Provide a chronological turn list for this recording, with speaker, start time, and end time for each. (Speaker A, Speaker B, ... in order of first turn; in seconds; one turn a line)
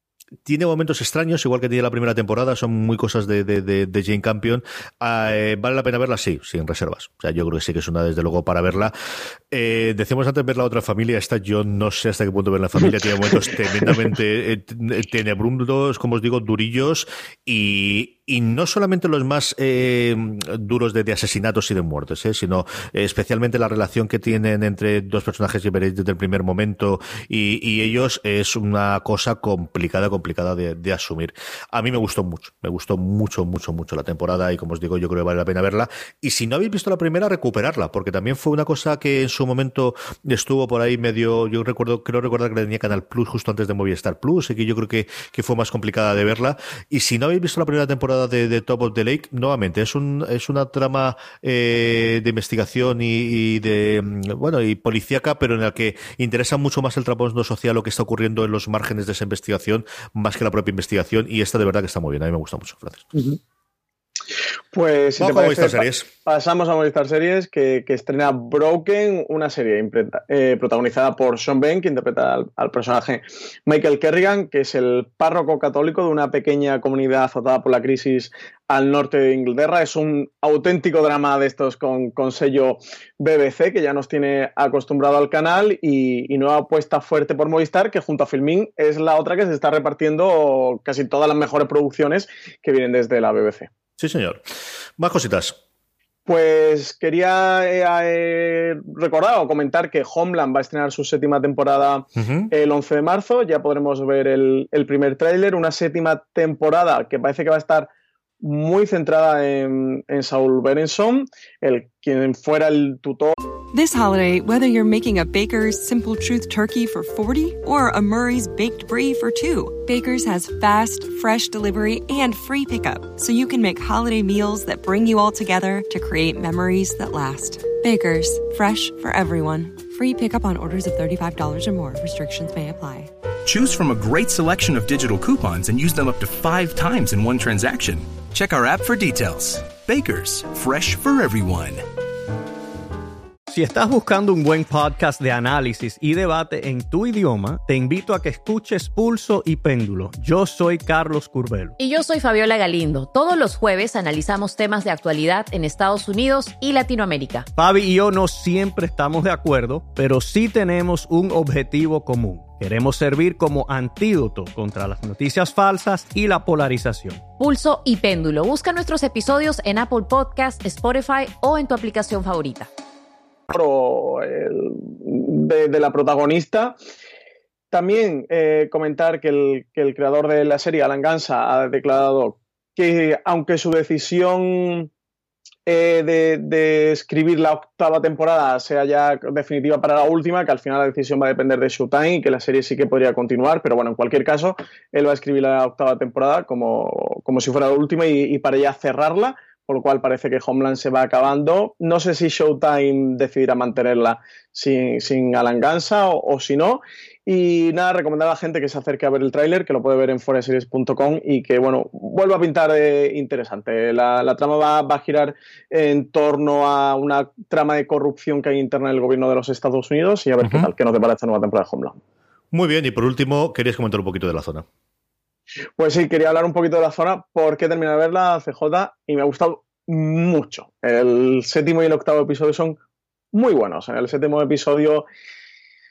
Speaker A: 0.5-8.9
Speaker A: 9.5-63.1
Speaker B: 64.7-93.7
Speaker A: 65.2-66.1
Speaker A: 94.0-94.4
Speaker A: 95.0-95.6
Speaker B: 96.3-107.9
Speaker A: 102.2-102.5
Speaker B: 108.4-113.3
Speaker C: 113.7-133.1
Speaker D: 133.5-141.8
Speaker E: 143.5-151.8
Speaker F: 151.8-157.5
Speaker E: 157.6-167.2
Speaker F: 167.4-172.7
Speaker B: 173.5-176.8
Speaker B: 177.7-184.9
Speaker B: 185.7-222.0
Speaker A: 220.4-220.7
Speaker A: 222.5-224.7
Speaker B: 225.8-232.8
Speaker B: 233.3-235.1